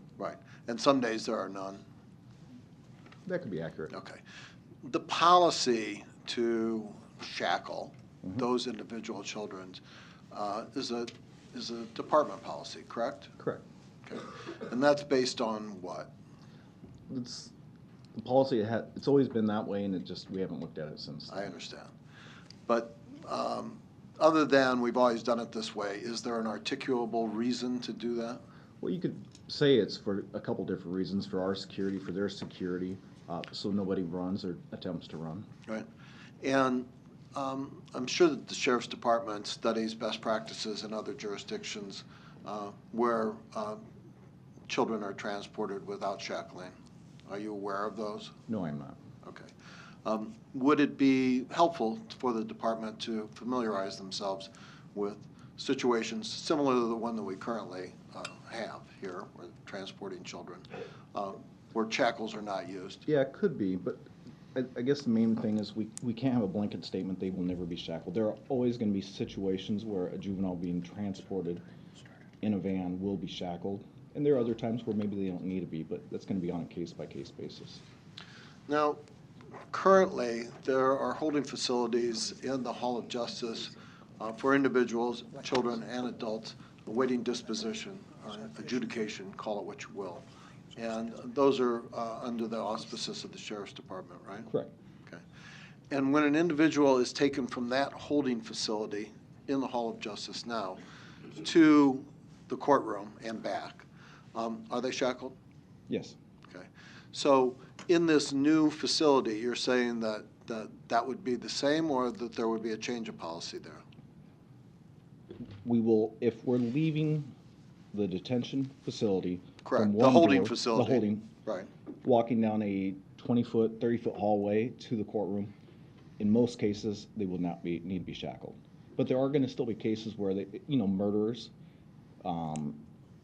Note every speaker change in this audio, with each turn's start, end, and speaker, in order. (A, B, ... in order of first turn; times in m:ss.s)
0:00.2-0:01.8 A
0:03.2-0:03.9 B
0:03.9-0:04.2 A
0:04.8-0:09.8 A
0:10.3-0:13.3 A
0:14.0-0:16.1 A
0:17.1-0:17.5 B
0:18.2-0:21.5 B
0:21.3-0:21.9 A
0:22.7-0:28.4 A
0:28.8-0:35.5 B
0:36.4-0:43.8 A
0:44.7-0:46.7 A
0:47.3-0:48.3 A
0:48.5-0:49.0 B
0:49.2-0:49.5 A
0:50.0-1:03.0 A
1:03.0-1:11.6 B
1:12.4-1:17.8 B
1:18.7-1:19.0 A
1:19.7-1:30.2 A
1:30.8-1:34.5 A
1:35.9-1:40.8 A
1:41.3-1:45.4 A
1:45.9-1:46.2 B
1:46.5-1:53.8 A
1:55.6-1:57.3 B
1:57.9-2:01.3 B
1:59.6-2:01.7 A
2:02.0-2:05.5 B
2:06.2-2:11.5 B
2:12.2-2:12.8 B